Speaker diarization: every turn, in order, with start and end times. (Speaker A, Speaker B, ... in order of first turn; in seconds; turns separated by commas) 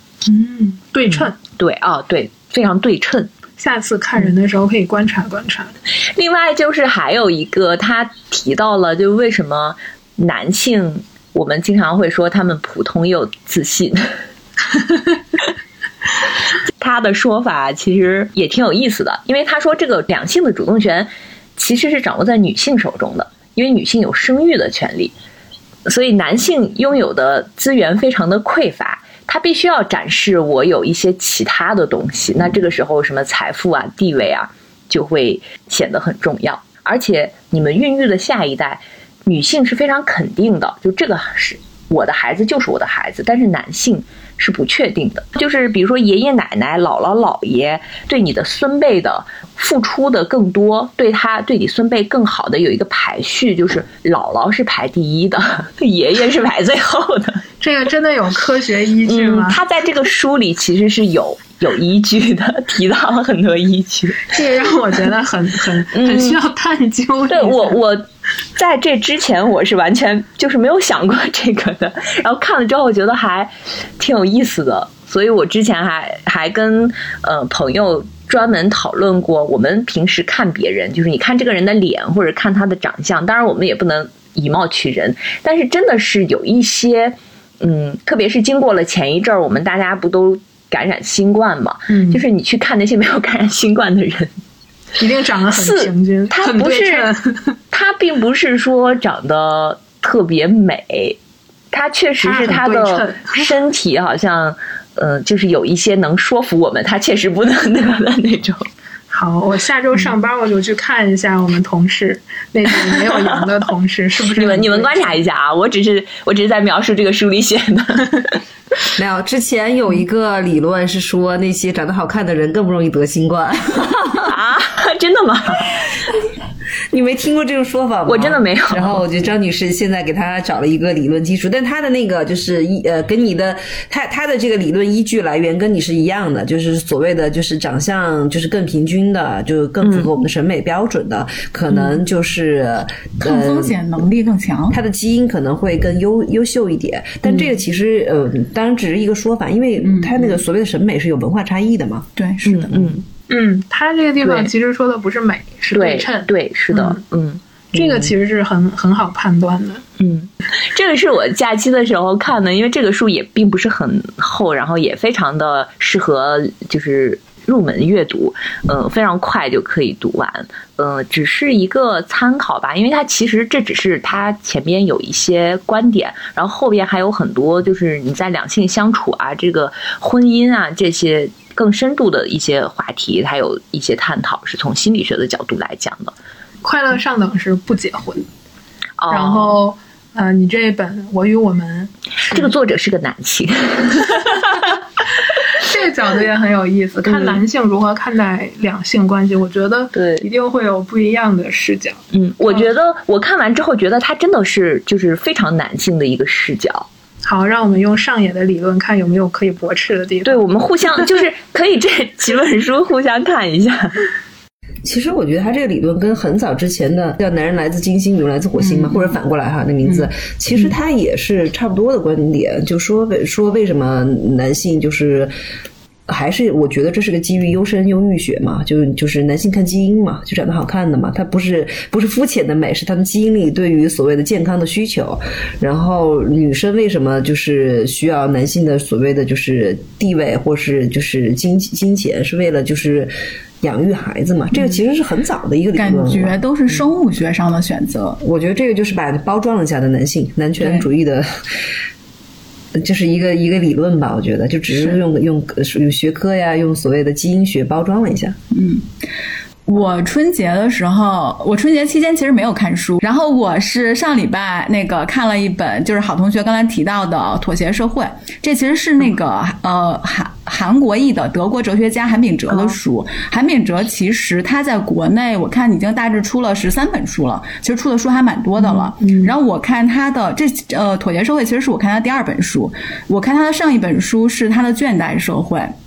Speaker A: 0.2-1.4, Speaker B: 1.2-3.3, Speaker A: 3.6-5.8, Speaker B: 6.0-14.2, Speaker B: 16.8-25.1, Speaker B: 25.9-57.4, Speaker A: 57.6-59.6, Speaker B: 59.1-64.3, Speaker A: 64.3-67.8, Speaker B: 65.9-66.4, Speaker B: 67.3-68.0, Speaker B: 68.6-94.3, Speaker A: 91.9-92.2, Speaker A: 95.0-97.5, Speaker B: 95.5-97.1, Speaker B: 97.7-101.2, Speaker B: 101.7-108.7, Speaker A: 102.2-103.5, Speaker A: 109.1-115.2, Speaker B: 114.3-118.4, Speaker C: 119.0-124.3, Speaker B: 124.3-125.8, Speaker C: 126.9-143.8, Speaker B: 128.1-129.0, Speaker B: 139.8-140.1, Speaker D: 143.2-144.8, Speaker C: 144.7-152.1, Speaker D: 149.8-150.4, Speaker D: 152.2-152.8, Speaker B: 152.4-153.0, Speaker A: 153.3-157.0, Speaker B: 154.2-154.5, Speaker B: 155.7-157.4, Speaker A: 157.7-159.8, Speaker B: 160.0-186.1, Speaker A: 186.6-188.3, Speaker B: 189.0-189.6, Speaker A: 189.1-192.5, Speaker B: 192.2-194.7, Speaker A: 195.5-202.7, Speaker B: 197.1-197.4, Speaker B: 199.9-200.3, Speaker B: 202.1-206.9, Speaker A: 207.2-210.5, Speaker B: 210.2-214.1, Speaker C: 214.8-225.3, Speaker D: 218.6-219.2, Speaker D: 219.8-220.7, Speaker C: 226.1-243.1, Speaker C: 243.6-246.4, Speaker D: 244.5-244.8, Speaker D: 245.8-248.2, Speaker C: 248.2-251.3, Speaker D: 250.6-250.9, Speaker C: 252.8-258.4, Speaker D: 258.5-258.9, Speaker D: 259.7-285.7, Speaker B: 272.5-272.8, Speaker B: 279.0-279.3